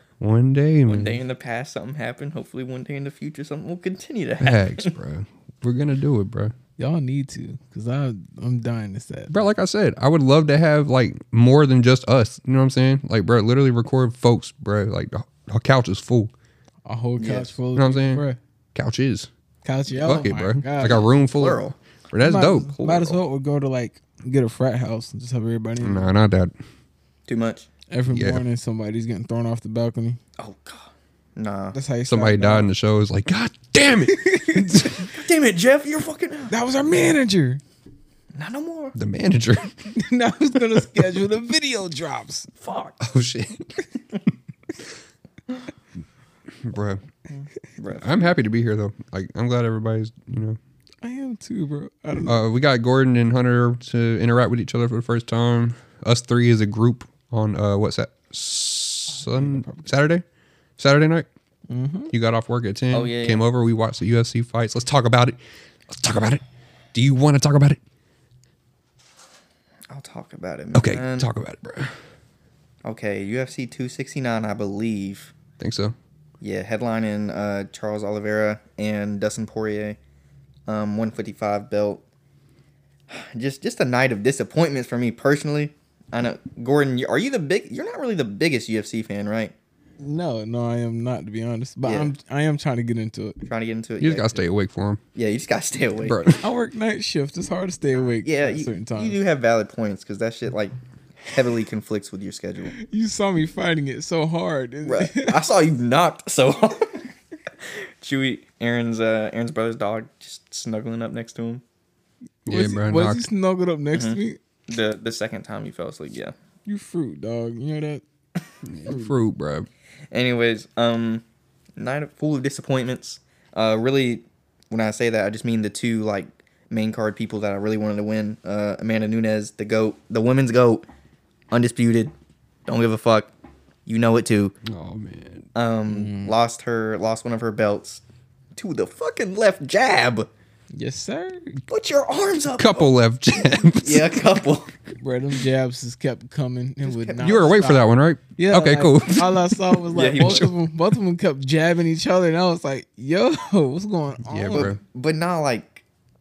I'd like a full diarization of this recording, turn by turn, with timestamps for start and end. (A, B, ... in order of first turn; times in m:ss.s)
0:00.2-0:01.2 A
0:00.8-0:04.9 B
0:04.4-0:06.6 A
0:06.8-0:09.3 C
0:09.3-0:16.3 A
0:16.9-0:18.4 C
0:17.2-0:17.5 B
0:17.8-0:19.3 A
0:19.6-0:21.0 C
0:20.0-0:23.2 A
0:21.4-0:21.8 B
0:22.2-0:26.1 C
0:25.8-0:26.5 A
0:27.3-0:27.7 B
0:27.9-0:30.2 C
0:28.1-0:28.4 A
0:30.4-0:31.8 B
0:31.7-0:32.7 C
0:32.1-0:35.1 A
0:34.1-0:35.0 C
0:35.1-0:36.5 B
0:36.5-0:37.6 C
0:38.4-0:39.0 B
0:39.0-0:39.8 A
0:39.9-0:42.5 C
0:42.6-0:43.0 B
0:43.0-0:43.8 A
0:46.6-0:47.0 A
0:47.3-0:48.3 B
0:48.0-0:50.6 A
0:51.0-0:52.4 C
0:52.3-1:00.2 A
0:59.3-0:59.9 C
1:00.8-1:01.3 A
1:01.7-1:02.1 C
1:02.1-1:06.4 A
1:02.9-1:03.4 B
1:06.9-1:07.8 A
1:09.9-1:11.3 B
1:10.7-1:12.0 A
1:12.8-1:15.3 B
1:15.6-1:16.0 A
1:16.4-1:20.0 B
1:20.7-1:22.0 B
1:23.1-1:29.6 B
1:30.0-1:33.4 C
1:31.8-1:32.1 B
1:33.5-1:34.4 B
1:34.0-1:35.0 A
1:35.2-1:36.2 B
1:36.0-1:36.4 A
1:36.4-1:39.2 C
1:38.2-1:40.7 B
1:41.3-1:42.8 B
1:42.8-1:45.4 C
1:44.8-1:47.1 B
1:48.0-1:51.6 B
1:52.4-1:54.4 C
1:52.5-1:53.2 A
1:53.9-1:56.3 B
1:56.7-1:58.0 C
1:58.6-1:59.7 A
2:00.1-2:01.2 B
2:01.8-2:10.8 B
2:11.5-2:12.1 B
2:12.7-2:13.3 B
2:13.9-2:14.6 B
2:14.6-2:15.5 A
2:15.6-2:18.0 B
2:15.9-2:16.3 C
2:18.6-2:20.3 B
2:20.7-2:21.6 C
2:21.7-2:22.9 B
2:22.6-2:24.2 A
2:23.7-2:24.7 B
2:25.0-2:34.8 C
2:26.8-2:27.6 B
2:27.2-2:30.5 A
2:29.9-2:30.5 B
2:34.3-2:34.8 A
2:34.5-2:35.8 B